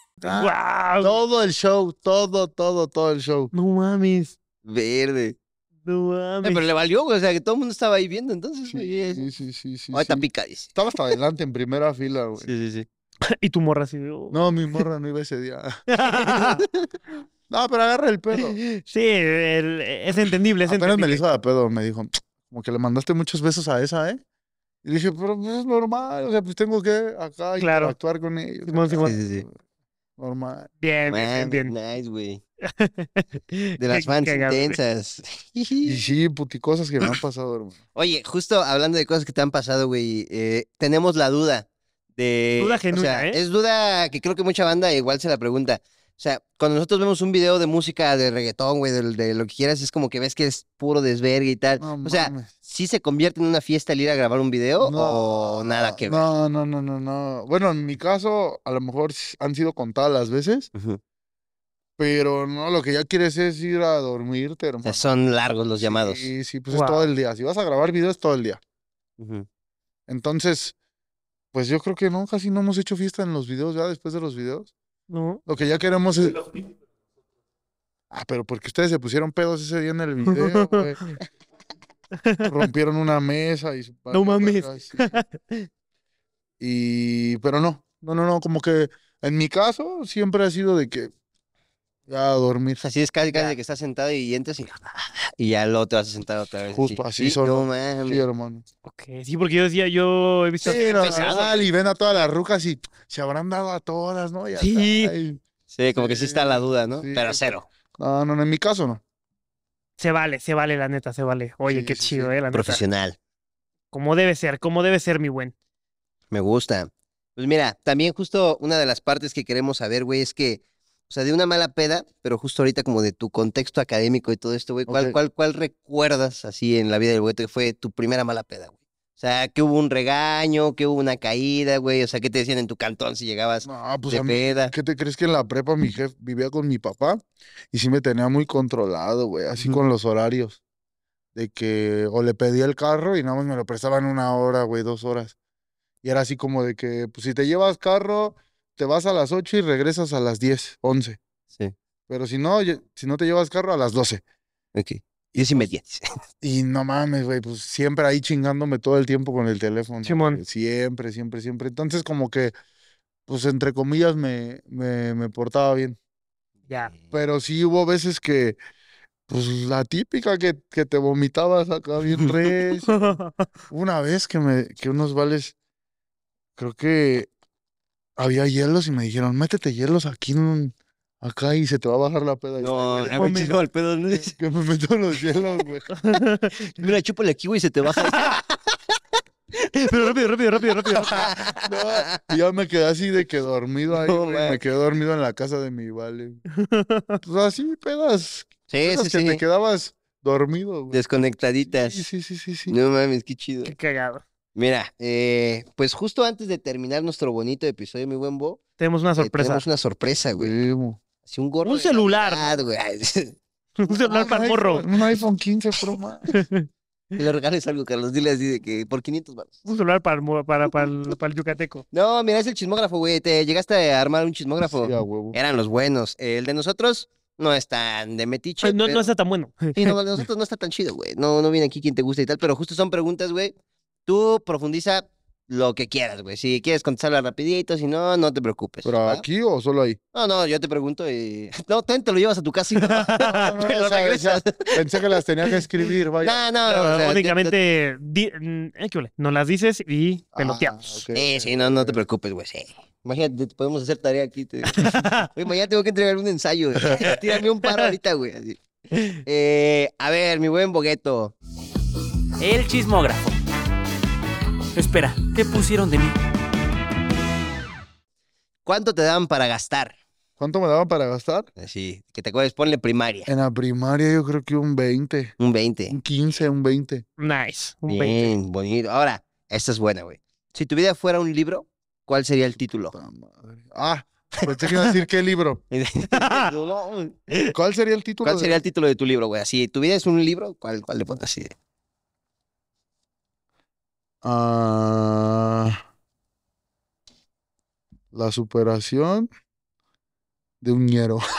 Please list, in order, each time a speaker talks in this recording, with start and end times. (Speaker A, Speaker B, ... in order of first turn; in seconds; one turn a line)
Speaker A: 0.2-3.5
Speaker B: 0.3-1.1
Speaker B: 3.5-4.3
Speaker C: 4.6-5.3
Speaker B: 5.8-6.7
Speaker C: 6.4-9.2
Speaker A: 8.7-12.5
Speaker C: 9.9-10.8
Speaker C: 12.4-12.8
Speaker B: 13.3-14.4
Speaker A: 14.3-16.3
Speaker B: 15.9-16.6
Speaker A: 17.5-18.6
Speaker B: 18.3-21.2
Speaker A: 20.7-24.2
Speaker A: 24.8-29.5
Speaker B: 27.6-27.9
Speaker B: 28.7-29.2
Speaker C: 29.0-29.4
Speaker A: 30.2-30.7
Speaker B: 30.8-31.7
Speaker C: 31.1-32.4
Speaker B: 32.6-34.8
Speaker C: 33.8-36.0
Speaker A: 35.8-37.8
Speaker C: 37.9-56.2
Speaker B: 42.6-43.4
Speaker A: 51.8-52.5
Speaker A: 54.8-60.7
Speaker C: 60.7-61.0
Speaker A: 62.0-65.1
Speaker C: 64.8-66.2
Speaker A: 65.8-68.6
Speaker B: 66.7-67.1
Speaker C: 69.2-69.5
Speaker A: 70.1-70.7
Speaker A: 71.5-74.7
Speaker B: 75.1-75.4
Speaker A: 75.5-76.5
Speaker A: 78.1-81.1
Speaker B: 80.3-81.1
Speaker B: 82.2-82.5
Speaker A: 82.4-85.2
Speaker B: 84.1-85.7
Speaker A: 86.6-91.1
Speaker A: 92.1-92.8
Speaker C: 92.8-98.2
Speaker B: 93.3-93.5
Speaker A: 96.7-98.6
Speaker B: 98.8-101.5
Speaker C: 100.6-101.7
Speaker A: 100.6-105.4
Speaker B: 104.6-105.1
Speaker C: 105.7-107.7
Speaker A: 105.9-109.0
Speaker B: 110.0-112.8
Speaker A: 111.7-112.3
Speaker C: 112.5-113.2
Speaker B: 113.9-115.5
Speaker C: 116.3-134.7
Speaker A: 124.9-125.2
Speaker A: 133.6-140.6
Speaker A: 141.3-145.3
Speaker A: 146.0-151.2
Speaker A: 152.1-154.2
Speaker C: 154.7-156.0
Speaker A: 155.3-155.7
Speaker A: 156.4-162.5
Speaker B: 160.0-160.4
Speaker A: 163.3-166.0
Speaker A: 167.1-168.6
Speaker A: 169.3-172.9
Speaker C: 172.1-172.5
Speaker B: 172.9-173.4
Speaker A: 173.7-175.5
Speaker A: 176.6-177.3
Speaker A: 178.2-183.5
Speaker C: 182.6-184.3
Speaker B: 183.1-183.6
Speaker A: 184.1-185.9
Speaker B: 185.9-186.6
Speaker C: 186.7-188.8
Speaker B: 189.7-191.4
Speaker C: 191.0-192.3
Speaker A: 191.6-196.4
Speaker C: 193.9-194.6
Speaker B: 196.5-197.2
Speaker A: 197.2-201.0
Speaker C: 198.7-199.4
Speaker C: 200.9-202.1
Speaker A: 201.6-202.7
Speaker C: 202.7-203.7
Speaker B: 203.6-204.2
Speaker C: 204.5-208.6
Speaker B: 208.8-209.6
Speaker C: 209.2-210.5
Speaker A: 210.4-211.0
Speaker C: 211.2-213.4
Speaker B: 211.6-212.5
Speaker B: 213.8-214.8
Speaker A: 214.0-216.3
Speaker B: 216.3-216.7
Speaker C: 217.2-219.6
Speaker B: 219.7-221.8
Speaker C: 221.9-229.0
Speaker A: 224.6-225.4
Speaker B: 228.6-229.9
Speaker C: 229.8-233.5
Speaker C: 234.1-239.2
Speaker A: 238.8-240.0
Speaker C: 240.1-245.2
Speaker B: 242.8-243.5
Speaker A: 243.2-246.4
Speaker C: 246.2-247.5
Speaker B: 246.7-251.0
Speaker A: 250.3-252.0
Speaker C: 251.1-258.6
Speaker B: 254.7-255.3
Speaker B: 257.1-257.9
Speaker C: 259.2-261.3
Speaker D: 262.4-263.4
Speaker D: 264.7-266.1
Speaker C: 268.6-269.9
Speaker A: 270.4-271.5
Speaker C: 271.6-273.3
Speaker A: 273.3-275.4
Speaker C: 275.4-276.0
Speaker A: 275.9-277.0
Speaker B: 277.2-278.3
Speaker C: 277.9-282.9
Speaker A: 282.9-285.6
Speaker C: 285.7-287.3
Speaker B: 286.1-286.5
Speaker A: 287.5-288.6
Speaker C: 288.2-291.5
Speaker A: 294.2-295.8
Speaker A: 298.1-299.3
Speaker A: 300.6-301.2